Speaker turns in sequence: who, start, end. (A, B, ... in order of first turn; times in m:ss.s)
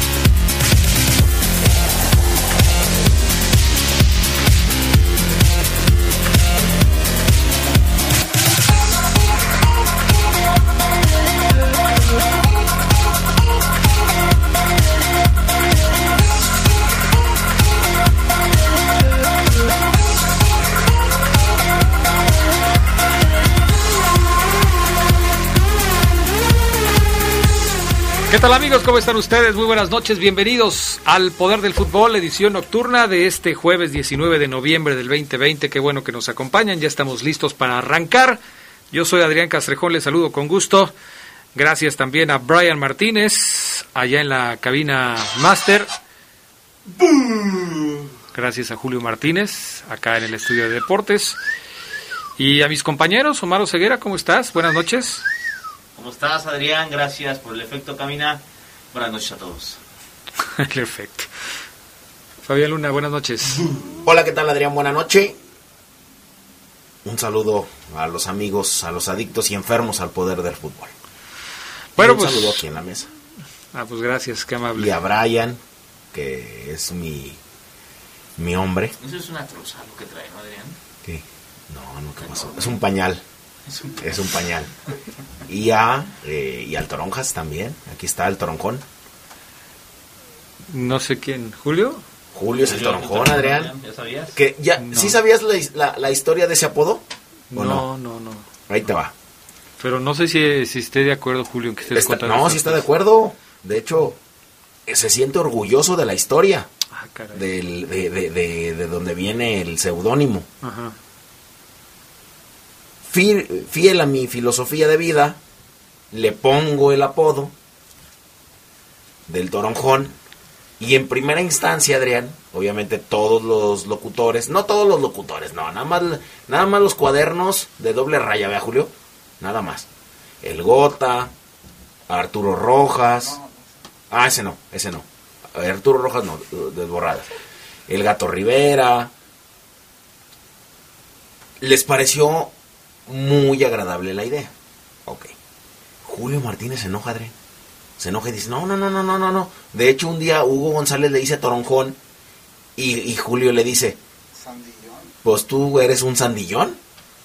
0:28.3-0:38.4 A
0:38.9-0:40.9 A
0:41.6-0:45.9 A
0:46.9-0:48.1 B
0:48.3-0:51.4 A
0:52.4-0:55.2 A
0:56.0-0:58.4 B
0:58.9-0:59.8 B
1:00.6-1:01.3 A
1:02.4-1:03.6 A
1:04.0-1:05.4 C
1:07.0-1:10.9 C
1:12.0-1:12.6 A
1:12.0-1:13.1 C
1:13.7-1:14.9 A
1:14.8-1:15.6 C
1:16.1-1:17.4 C
1:18.4-1:18.9 C
1:19.0-1:20.8 B
1:21.0-1:23.2 C
1:22.3-1:22.6 B
1:23.7-1:24.3 B
1:24.0-1:24.7 C
1:25.5-1:28.8 C
1:30.7-1:32.0 A
1:32.3-1:33.7 C
1:32.6-1:34.4 B
1:34.3-1:37.9 C
1:34.8-1:35.2 A
1:37.5-1:38.5 A
1:38.7-1:39.1 C
1:39.8-1:42.8 A
1:41.9-1:44.2 C
1:44.9-1:46.7 C
1:46.9-1:47.4 A
1:47.3-1:50.5 C
1:50.6-1:51.0 A
1:53.0-1:55.4 C
1:56.1-1:57.5 C
1:59.3-2:00.2 C
2:00.8-2:09.9 C
2:10.4-2:11.3 C
2:12.1-2:13.4 C
2:14.1-2:17.3 C
2:17.9-2:19.1 C
2:21.6-2:22.5 C
2:23.1-2:24.5 C
2:25.1-2:25.3 C
2:26.0-2:27.3 C
2:28.0-2:32.0 C
2:32.8-2:34.0 C
2:35.2-2:36.8 C